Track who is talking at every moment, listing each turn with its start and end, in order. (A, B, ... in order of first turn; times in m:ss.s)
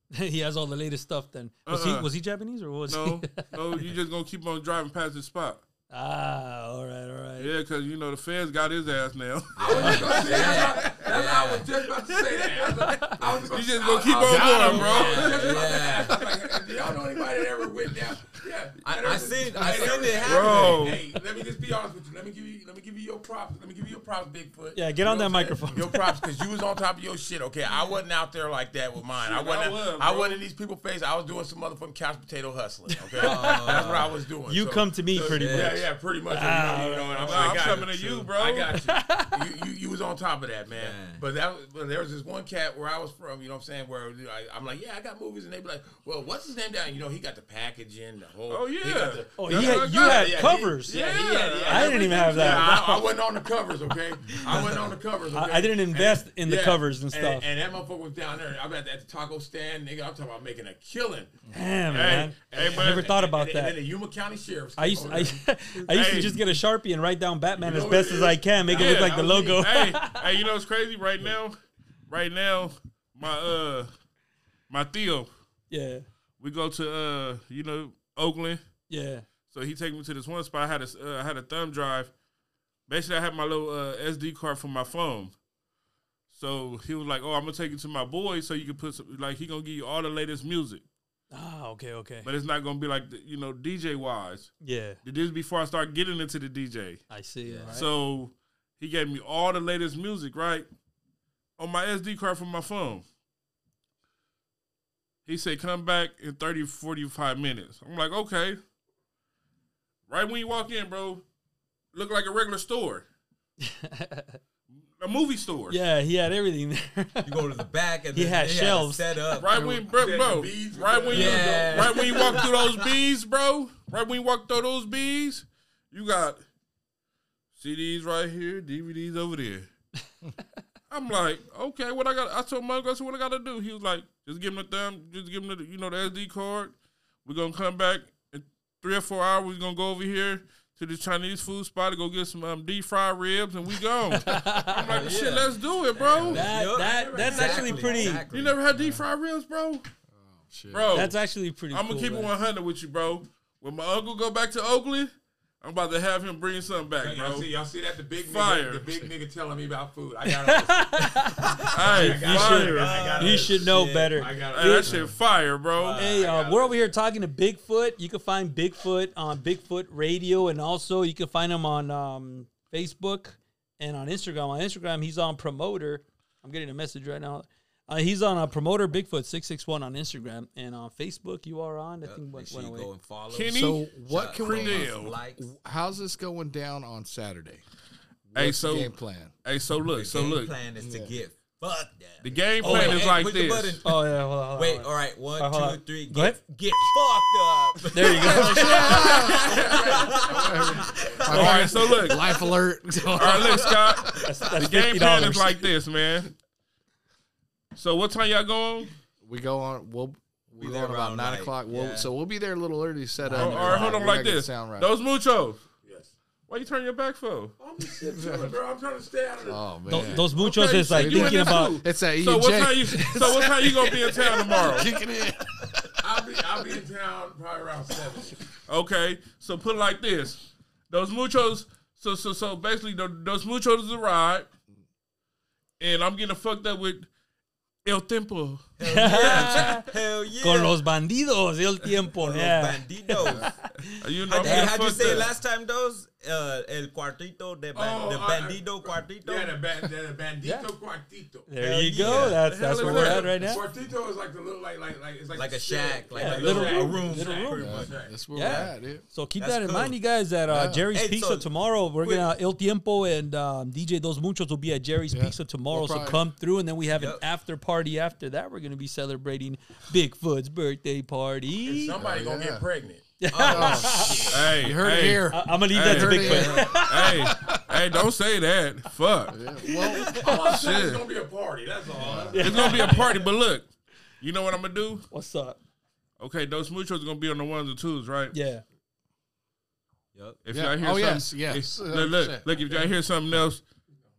0:00.1-0:03.9 A
0:01.6-0:02.1 B
0:02.9-0:05.6 B
0:05.9-0:07.5 A
0:07.4-0:11.0 B
0:09.6-0:11.7 C
0:09.6-1:01.3 D
0:09.8-0:10.4 A
0:12.8-0:13.2 A
0:13.5-0:15.7 B
0:14.3-0:16.2 C
0:18.8-0:21.0 C
0:20.1-0:21.0 B
0:24.7-0:26.1 A
0:29.1-0:30.4 B
0:32.9-0:33.8 A
0:33.2-0:34.1 C
0:34.5-0:37.7 A
0:35.3-0:35.8 C
0:37.2-0:38.7 B
0:38.8-0:39.4 A
0:40.7-0:41.2 C
0:48.5-0:52.8 B
0:49.4-0:51.0 A
0:51.6-0:53.0 A
0:55.3-0:57.4 A
1:01.5-1:03.8 A
1:01.9-1:03.1 B
1:01.9-1:05.4 D
1:04.8-1:10.2 A
1:05.9-1:06.4 B
1:07.6-1:09.6 D
1:08.7-1:11.6 B
1:12.1-1:13.9 B
1:14.7-1:15.3 B
1:15.7-1:16.0 A
1:16.4-1:18.6 B
1:18.9-1:19.2 A
1:19.5-1:22.1 B
1:22.9-1:25.3 B
1:26.3-1:30.8 B
1:31.3-1:32.3 A
1:32.2-1:34.5 B
1:34.6-1:35.0 A
1:35.0-1:37.0 B
1:37.1-1:37.9 A
1:37.4-1:37.8 C
1:37.7-1:40.7 B
1:41.6-1:43.0 B
1:45.2-1:48.6 B
1:50.1-1:51.2 B
1:51.9-1:53.0 B
1:53.6-1:54.4 A
1:55.0-1:55.8 B
1:55.7-1:57.3 A
1:57.2-1:59.6 C
1:58.1-1:59.0 A
1:59.4-2:06.4 B
1:59.6-2:02.5 D
2:01.1-2:02.9 C
2:07.6-2:09.7 B
2:10.9-2:26.5 B
2:24.1-2:25.0 A
2:24.8-2:28.6 C
2:26.3-2:28.2 A
2:26.7-2:28.2 D
2:28.3-2:29.8 B
2:28.7-2:29.0 E
2:30.1-2:31.1 E
2:30.7-2:31.2 B
2:30.9-2:32.3 A
2:31.7-2:37.5 B
2:37.0-2:41.3 D
2:38.2-2:38.9 B
2:40.3-2:44.9 A
2:41.4-2:44.3 C
2:41.7-2:43.1 B
2:41.8-2:45.0 D
2:44.5-2:46.0 B
2:45.8-2:46.3 C
2:46.0-3:02.9 A
2:46.0-2:46.9 D
3:02.0-3:05.4 C
3:03.3-3:05.1 B
3:03.5-3:07.6 E
3:08.3-3:09.3 E
3:08.4-3:08.9 B
3:09.4-3:10.5 B
3:09.9-3:13.9 C
3:10.8-3:11.1 E
3:12.2-3:13.8 B
3:12.6-3:13.0 A
3:13.8-3:16.4 A
3:14.5-3:22.5 C
3:17.9-3:19.0 A
3:18.3-3:19.8 B
3:18.3-3:19.6 E
3:19.3-3:21.5 D
3:20.2-3:23.8 E
3:21.3-3:22.2 B
3:23.1-3:26.3 B
3:23.2-3:24.3 C
3:24.2-3:25.6 A
3:27.7-3:28.9 B
3:29.2-3:34.9 E
3:30.6-3:32.1 C
3:33.2-3:33.7 A
3:33.4-3:34.0 C
3:33.4-3:35.6 B
3:35.8-3:36.1 D
3:36.5-3:37.5 B
3:37.6-3:40.2 D
3:38.0-3:38.6 E
3:39.4-3:40.3 E
3:39.9-3:41.8 A
3:40.3-3:44.9 B
3:40.9-3:45.9 E
3:46.0-3:48.4 D
3:48.7-3:54.5 B
3:55.8-3:57.1 B
3:57.8-3:58.6 B
3:58.8-4:00.7 C
3:58.8-3:59.8 A
4:00.4-4:05.2 A
4:02.2-4:03.5 C
4:04.0-4:05.3 B
4:04.3-4:09.6 C
4:07.7-4:11.5 D
4:10.4-4:10.7 A
4:11.5-4:13.6 A
4:11.6-4:13.2 C
4:12.0-4:13.4 B
4:12.8-4:18.2 D
4:15.3-4:18.7 C
4:16.1-4:17.6 A
4:17.6-4:19.0 E
4:18.3-4:32.0 A
4:19.4-4:19.9 C
4:20.5-4:20.8 E
4:20.9-4:21.5 C
4:22.0-4:22.3 C
4:25.1-4:26.2 E
4:26.9-4:27.2 C
4:31.6-4:33.1 D
4:32.0-4:32.6 E
4:33.2-4:34.3 A
4:33.3-4:34.5 C
4:33.4-4:37.9 E
4:34.3-4:39.4 B
4:35.3-4:37.3 A
4:36.3-4:36.6 C
4:39.3-4:40.2 E
4:39.6-4:40.6 A
4:40.1-4:43.3 D
4:40.5-4:41.0 B
4:42.0-4:42.4 E
4:42.3-4:43.0 A
4:42.4-4:43.7 B
4:44.2-4:45.0 B
4:45.1-4:45.6 A
4:46.2-4:48.3 B
4:48.3-4:48.6 A
4:50.1-4:50.4 C
4:50.4-4:53.6 B
4:50.5-4:52.8 E